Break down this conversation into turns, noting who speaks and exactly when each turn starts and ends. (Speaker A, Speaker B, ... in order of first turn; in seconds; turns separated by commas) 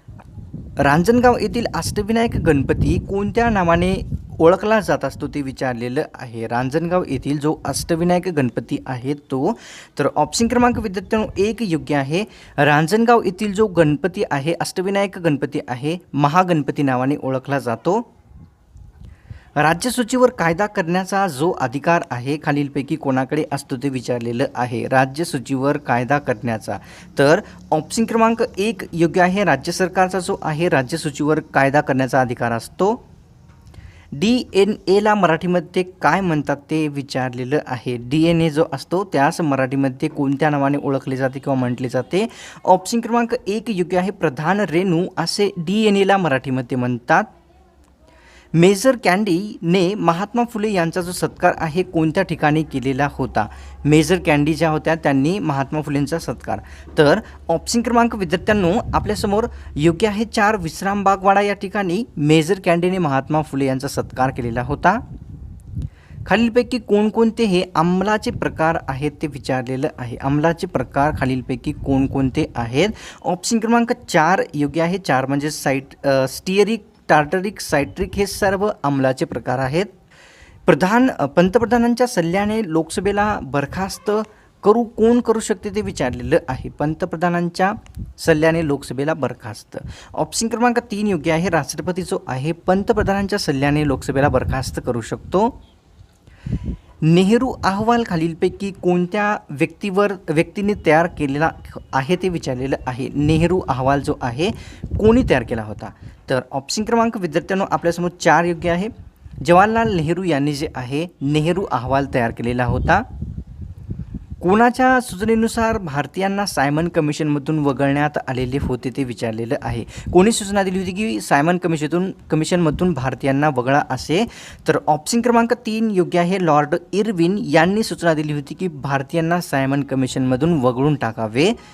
Speaker A: 0.8-18.1, Speaker A: 19.6-33.0, Speaker A: 34.1-47.3, Speaker A: 48.5-65.0, Speaker A: 66.3-79.9, Speaker A: 80.7-95.6, Speaker A: 97.0-113.0, Speaker A: 114.4-131.6